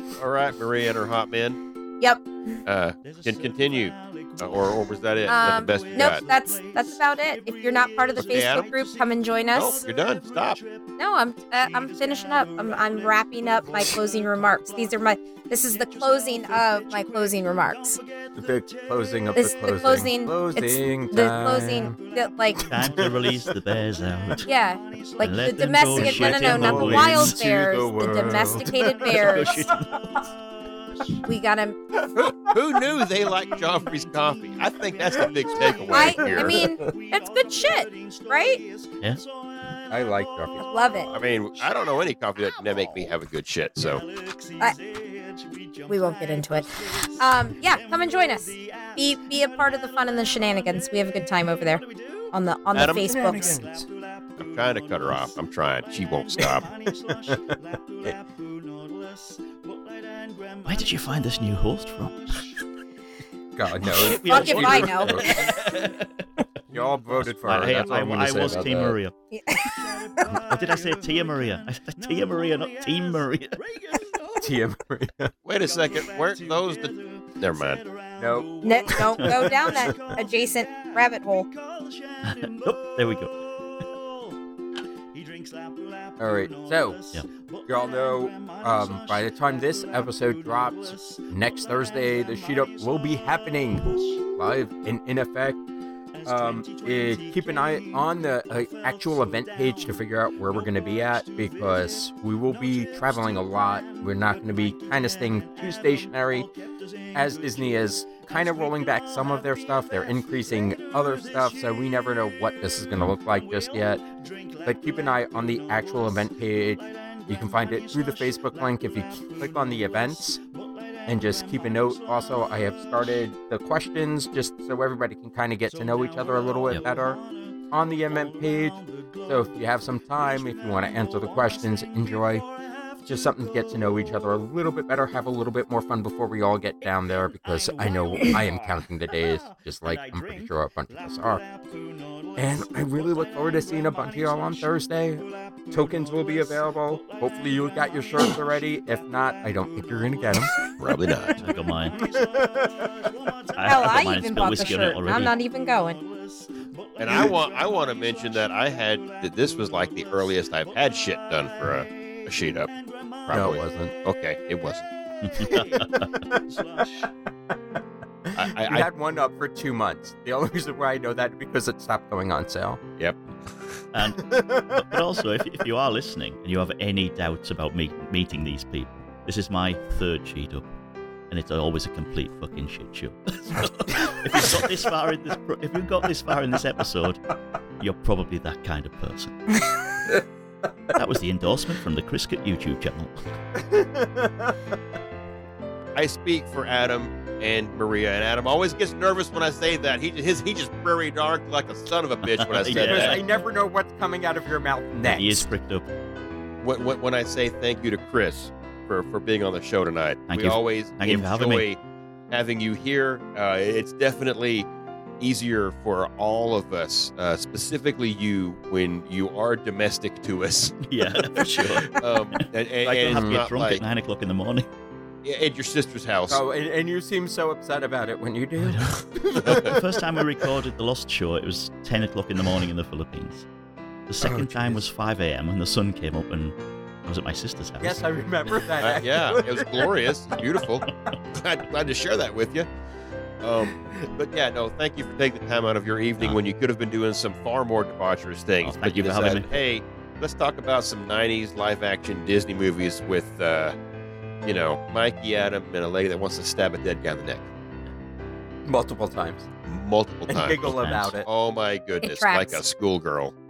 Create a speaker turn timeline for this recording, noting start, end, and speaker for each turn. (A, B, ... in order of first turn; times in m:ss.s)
0:00.2-0:01.6 A
0:02.0-0:02.6 B
0:02.6-0:06.2 A
0:05.3-0:09.8 B
0:08.2-0:08.7 A
0:09.5-0:10.6 A
0:11.0-0:18.0 B
0:18.4-0:22.0 C
0:19.3-0:22.6 B
0:22.6-0:23.6 C
0:22.6-0:24.5 D
0:24.4-0:29.6 B
0:25.2-0:27.4 D
0:25.9-0:29.7 C
0:29.1-0:30.2 D
0:31.2-0:31.8 B
0:32.2-0:32.6 C
0:32.4-0:36.7 A
0:35.1-0:36.9 C
0:35.9-0:38.6 B
0:39.9-0:41.3 C
0:40.6-0:41.1 B
0:41.1-0:44.0 A
0:45.9-0:53.6 B
0:52.7-0:53.2 A
0:52.8-0:53.9 C
0:54.4-0:56.6 A
0:56.4-0:58.2 C
1:00.6-1:02.6 D
1:03.5-1:05.6 C
1:03.8-1:06.4 D
1:03.9-1:05.6 B
1:06.7-1:09.0 C
1:07.2-1:09.1 D
1:09.3-1:10.4 B
1:10.3-1:14.1 D
1:14.3-1:15.3 C
1:15.4-1:17.8 A
1:18.2-1:20.1 C
1:18.6-1:21.5 B
1:22.2-1:23.3 D
1:26.2-1:35.6 C
1:36.2-1:46.5 C
1:47.1-1:54.0 C
1:54.6-2:00.4 C
2:01.0-2:12.4 C
2:13.0-2:21.4 C
2:22.3-2:30.6 C
2:30.8-2:31.4 A
2:31.4-2:32.0 D
2:32.0-2:33.3 C
2:33.5-2:35.3 D
2:33.6-2:36.0 B
2:37.0-2:42.7 A
2:43.2-2:44.9 A
2:43.3-2:43.9 C
2:45.2-2:46.3 D
2:45.4-2:47.1 C
2:48.3-2:52.8 C
2:48.3-2:48.9 A
2:53.0-2:53.8 A
2:53.9-3:00.6 D
2:54.2-2:55.0 C
3:01.3-3:07.2 D
3:07.8-3:09.5 D
3:10.9-3:13.2 D
3:13.5-3:14.6 C
3:15.9-3:23.2 A
3:22.2-3:23.2 D
3:22.7-3:25.5 C
3:25.0-3:25.9 D
3:26.6-3:31.8 A
3:30.3-3:31.6 D
3:32.3-3:34.7 A
3:35.2-3:43.8 A
3:40.9-3:44.7 D
3:43.1-3:43.4 C
3:45.2-3:46.4 A
3:46.3-3:50.2 C
3:48.6-3:53.4 D
3:49.4-3:49.7 A
3:54.1-3:58.0 D
3:54.2-3:54.8 C
3:57.8-4:00.0 C
3:58.8-4:02.6 A
4:00.9-4:01.2 D
4:03.4-4:13.8 A
4:08.6-4:09.6 D
4:14.4-4:17.5 A
4:18.6-4:19.5 C
4:19.6-4:20.7 A
4:20.3-4:21.3 C
4:20.6-4:21.2 D
4:21.2-4:23.3 A
4:22.0-4:22.6 B